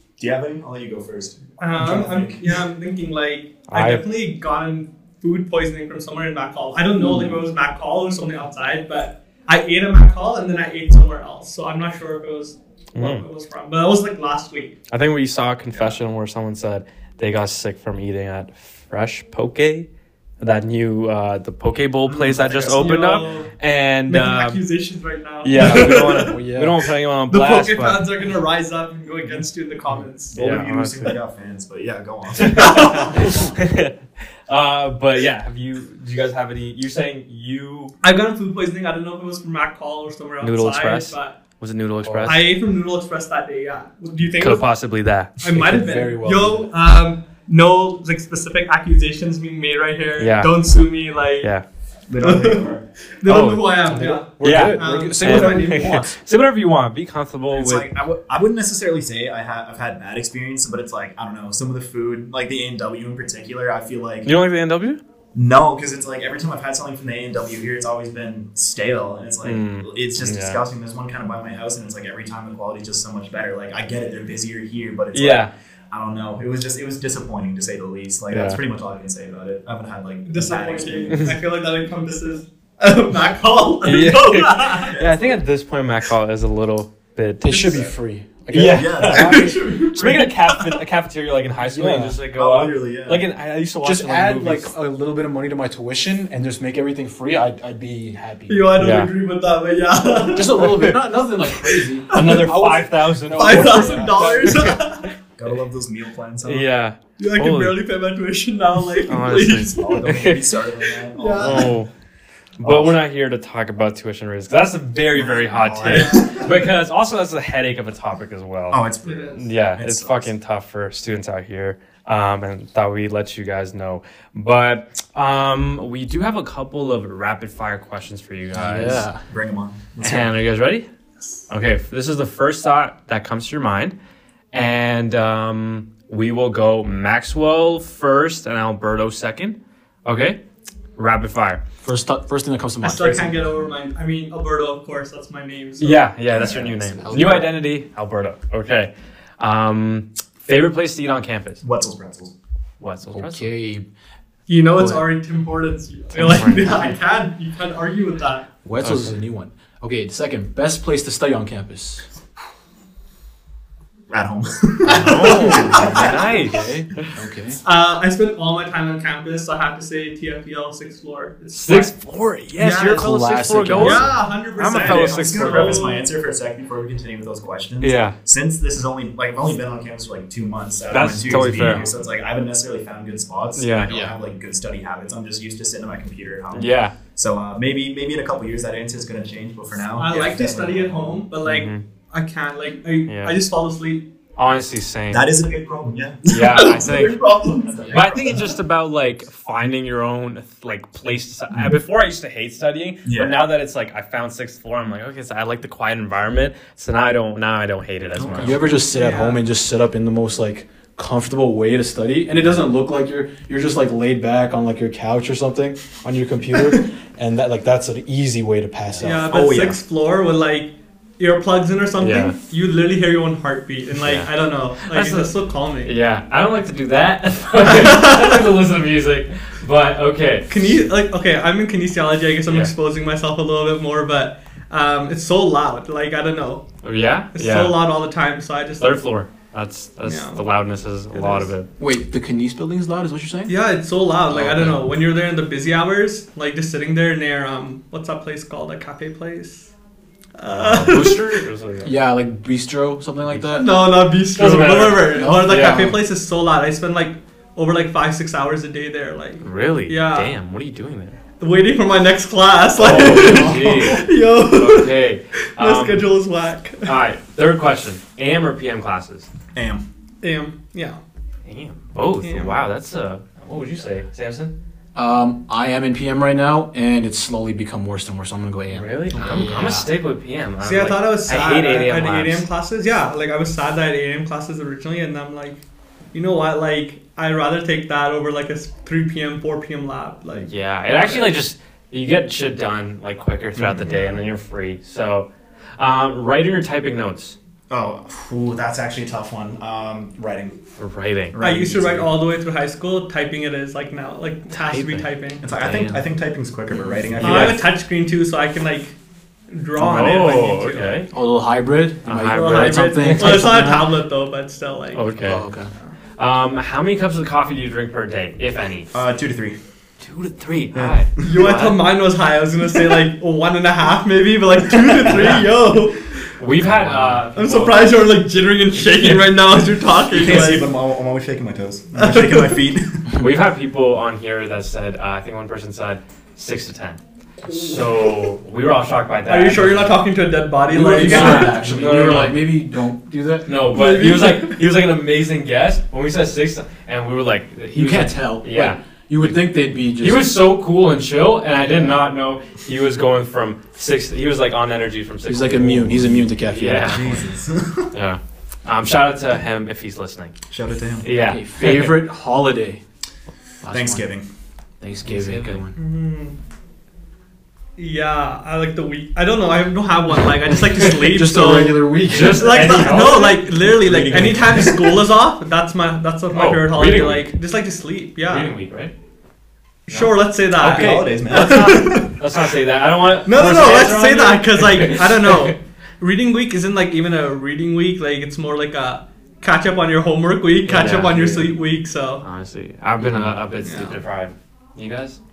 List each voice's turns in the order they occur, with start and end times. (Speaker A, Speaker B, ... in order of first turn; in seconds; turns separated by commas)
Speaker A: 0.2-2.6, Speaker B: 1.6-14.8, Speaker C: 3.7-4.1, Speaker C: 12.9-13.2, Speaker C: 14.9-19.9, Speaker C: 20.4-24.6, Speaker A: 22.1-23.3, Speaker B: 22.8-23.5, Speaker B: 24.1-26.4, Speaker C: 25.4-28.1, Speaker D: 26.0-26.8, Speaker B: 27.3-30.3, Speaker A: 30.3-33.2, Speaker C: 30.3-31.1, Speaker C: 32.4-37.9, Speaker B: 32.6-33.3, Speaker B: 38.0-41.4, Speaker C: 40.4-42.5, Speaker D: 42.0-42.3, Speaker B: 42.2-44.6, Speaker C: 44.4-45.3, Speaker B: 45.4-51.5, Speaker D: 45.5-46.7, Speaker C: 50.2-50.6, Speaker A: 52.1-52.8, Speaker B: 52.2-52.7, Speaker B: 53.2-56.1, Speaker C: 53.3-53.9, Speaker D: 53.9-56.0, Speaker C: 54.4-57.9, Speaker A: 57.5-64.3, Speaker C: 64.2-65.0, Speaker A: 65.3-81.4, Speaker C: 69.4-70.6, Speaker C: 75.1-75.5, Speaker C: 78.3-78.6, Speaker B: 80.3-85.0, Speaker C: 83.8-87.9, Speaker A: 84.8-85.3, Speaker D: 87.4-89.3, Speaker C: 88.5-94.7, Speaker A: 88.5-89.6, Speaker B: 89.1-90.8, Speaker D: 91.6-92.2, Speaker A: 92.3-93.2, Speaker D: 93.8-98.8, Speaker B: 98.5-101.0, Speaker C: 98.8-99.1, Speaker D: 100.3-104.8, Speaker C: 100.6-101.0, Speaker B: 101.5-102.6, Speaker C: 102.1-104.8, Speaker B: 103.3-105.1, Speaker A: 105.4-106.7, Speaker C: 106.4-107.8, Speaker B: 107.2-110.0, Speaker C: 109.0-110.7, Speaker A: 109.6-111.7, Speaker B: 111.2-111.7, Speaker C: 111.4-111.9, Speaker A: 112.6-113.0, Speaker C: 112.6-129.1, Speaker A: 115.1-116.5, Speaker B: 115.8-116.5, Speaker A: 118.7-120.3, Speaker B: 119.0-119.4, Speaker D: 128.6-129.2, Speaker A: 129.3-130.4, Speaker C: 130.0-130.9, Speaker C: 131.5-134.0, Speaker C: 134.5-140.4, Speaker C: 141.0-141.6, Speaker D: 141.8-143.4, Speaker B: 142.8-146.0, Speaker C: 145.8-151.6, Speaker A: 146.3-147.4, Speaker D: 147.1-147.5, Speaker A: 151.6-152.3, Speaker C: 152.8-153.5, Speaker D: 153.1-153.9, Speaker B: 154.5-158.5, Speaker C: 156.2-156.9, Speaker D: 158.6-162.1, Speaker C: 158.8-159.2, Speaker A: 164.1-166.3, Speaker C: 164.9-167.1, Speaker D: 164.9-167.6, Speaker B: 165.7-166.0, Speaker B: 167.6-171.9, Speaker C: 171.5-175.9, Speaker B: 172.6-173.1, Speaker D: 172.8-174.2, Speaker B: 173.7-176.1, Speaker A: 174.6-191.2, Speaker C: 177.8-178.2, Speaker C: 180.9-181.9, Speaker B: 181.3-182.0, Speaker C: 183.6-184.0, Speaker D: 183.9-184.2, Speaker C: 186.5-186.9, Speaker B: 189.9-194.1, Speaker C: 191.4-191.8, Speaker C: 193.1-193.4, Speaker C: 194.4-195.3, Speaker A: 195.1-198.5, Speaker C: 196.3-197.2, Speaker B: 196.3-197.9, Speaker C: 197.9-208.7, Speaker A: 203.1-203.4, Speaker A: 208.2-208.6, Speaker D: 208.3-219.3, Speaker B: 208.9-209.4, Speaker B: 219.0-225.9, Speaker A: 219.3-219.8, Speaker C: 222.0-222.4, Speaker C: 224.0-224.3, Speaker C: 224.8-225.3, Speaker C: 225.8-230.8, Speaker B: 227.6-228.5, Speaker B: 230.5-236.7, Speaker C: 232.5-232.7, Speaker C: 236.8-237.8, Speaker B: 237.3-239.0, Speaker C: 238.8-241.7, Speaker B: 240.1-240.4, Speaker B: 241.1-241.5, Speaker D: 241.8-243.6, Speaker B: 243.5-249.7, Speaker C: 244.3-244.8, Speaker D: 244.4-244.7, Speaker B: 250.4-251.4, Speaker C: 250.5-251.9, Speaker D: 251.8-253.7, Speaker B: 253.5-260.4, Speaker C: 254.3-256.0, Speaker D: 255.1-256.0, Speaker C: 259.4-261.2, Speaker B: 261.4-265.0, Speaker C: 262.8-266.1, Speaker B: 265.6-267.0, Speaker C: 266.8-269.3, Speaker A: 269.5-269.9, Speaker B: 270.2-271.0, Speaker C: 271.4-274.5, Speaker B: 272.2-272.6, Speaker D: 274.9-279.9, Speaker C: 278.7-282.5, Speaker B: 280.6-291.3, Speaker C: 290.4-297.4, Speaker B: 293.8-294.2, Speaker A: 297.7-300.6, Speaker C: 300.8-301.4, Speaker A: 301.3-302.1, Speaker B: 301.4-305.4, Speaker C: 304.5-306.0, Speaker A: 305.4-307.6, Speaker D: 306.9-307.5, Speaker C: 307.2-307.6, Speaker B: 307.2-309.0, Speaker B: 309.5-311.0, Speaker C: 309.8-311.1, Speaker D: 311.1-313.9, Speaker C: 312.0-313.6, Speaker B: 312.3-315.1, Speaker C: 314.9-315.4, Speaker D: 315.2-315.7, Speaker C: 316.2-318.9, Speaker A: 318.9-319.6, Speaker C: 320.0-321.8, Speaker B: 321.2-326.2, Speaker C: 325.1-325.4, Speaker C: 326.4-328.0, Speaker B: 327.2-330.7, Speaker A: 330.1-333.1, Speaker B: 332.0-332.6, Speaker C: 333.1-340.0, Speaker B: 339.3-341.6, Speaker D: 340.7-343.6, Speaker C: 341.0-342.5, Speaker C: 343.5-349.4, Speaker B: 343.7-344.6, Speaker D: 347.7-350.4, Speaker C: 350.0-357.3, Speaker D: 351.7-351.9, Speaker D: 355.3-357.2, Speaker A: 356.9-357.9, Speaker C: 357.9-360.4, Speaker A: 360.5-361.1, Speaker C: 361.0-362.0, Speaker D: 361.3-362.8, Speaker D: 363.6-364.1, Speaker A: 363.7-364.2, Speaker D: 364.8-365.8, Speaker C: 365.1-365.6, Speaker B: 365.8-366.4, Speaker B: 367.8-378.5, Speaker D: 371.0-374.9, Speaker C: 372.1-373.5, Speaker C: 376.3-377.3, Speaker C: 378.3-378.9, Speaker B: 379.9-382.1, Speaker C: 379.9-385.5, Speaker A: 380.5-382.1, Speaker B: 383.2-392.2, Speaker C: 390.6-391.6, Speaker C: 392.2-395.2, Speaker B: 393.6-394.0